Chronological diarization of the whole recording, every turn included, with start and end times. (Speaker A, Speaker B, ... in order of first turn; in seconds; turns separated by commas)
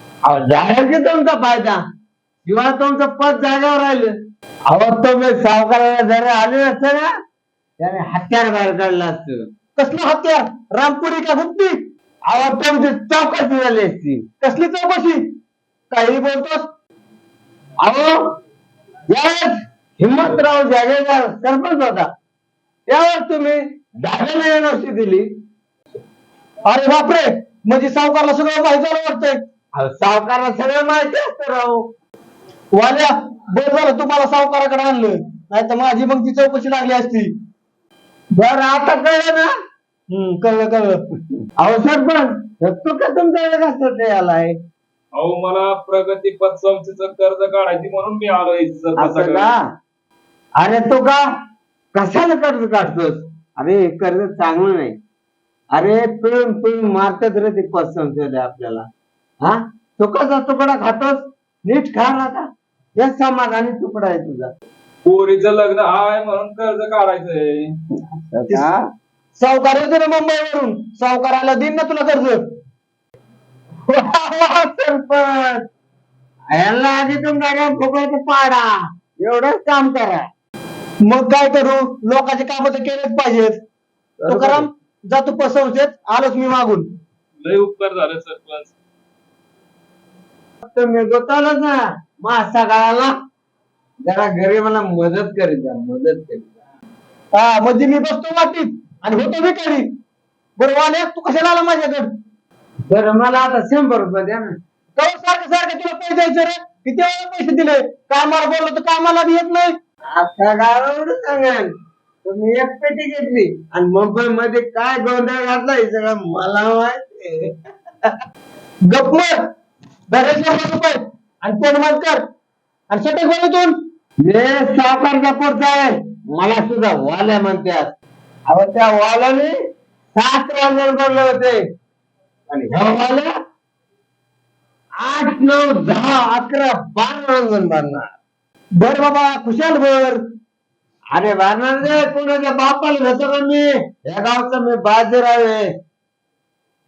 Speaker A: 0.2-1.8, Speaker A: 2.4-4.1, Speaker A: 4.7-7.1, Speaker A: 7.8-9.5, Speaker B: 9.8-11.8, Speaker A: 12.2-14.3, Speaker B: 14.4-15.2, Speaker B: 15.9-16.7, Speaker A: 17.8-18.2, Speaker A: 19.1-19.4, Speaker A: 20.0-22.1, Speaker A: 22.9-25.3, Speaker B: 26.7-29.4, Speaker A: 29.7-31.8, Speaker B: 32.7-37.3, Speaker A: 38.3-39.5, Speaker B: 40.1-41.0, Speaker A: 41.6-44.6, Speaker C: 45.1-49.5, Speaker A: 49.0-49.5, Speaker A: 50.6-51.2, Speaker A: 51.9-55.0, Speaker A: 55.7-58.9, Speaker A: 59.4-64.5, Speaker C: 65.0-67.5, Speaker A: 68.3-68.8, Speaker B: 69.4-72.4, Speaker A: 73.9-75.6, Speaker A: 76.5-80.3, Speaker B: 81.0-83.6, Speaker A: 84.2-84.7, Speaker B: 84.2-86.9, Speaker C: 87.4-88.7, Speaker A: 90.6-93.1, Speaker A: 94.0-96.5, Speaker B: 97.3-99.9, Speaker B: 100.6-102.1, Speaker A: 102.9-104.6, Speaker B: 105.0-109.8, Speaker A: 110.1-118.2, Speaker B: 118.9-119.3, Speaker B: 120.1-122.2, Speaker B: 122.9-123.8, Speaker A: 124.2-127.9, Speaker A: 128.5-129.5, Speaker A: 130.1-131.6, Speaker A: 132.5-133.3, Speaker A: 135.0-138.1, Speaker B: 138.8-140.2, Speaker A: 141.1-145.7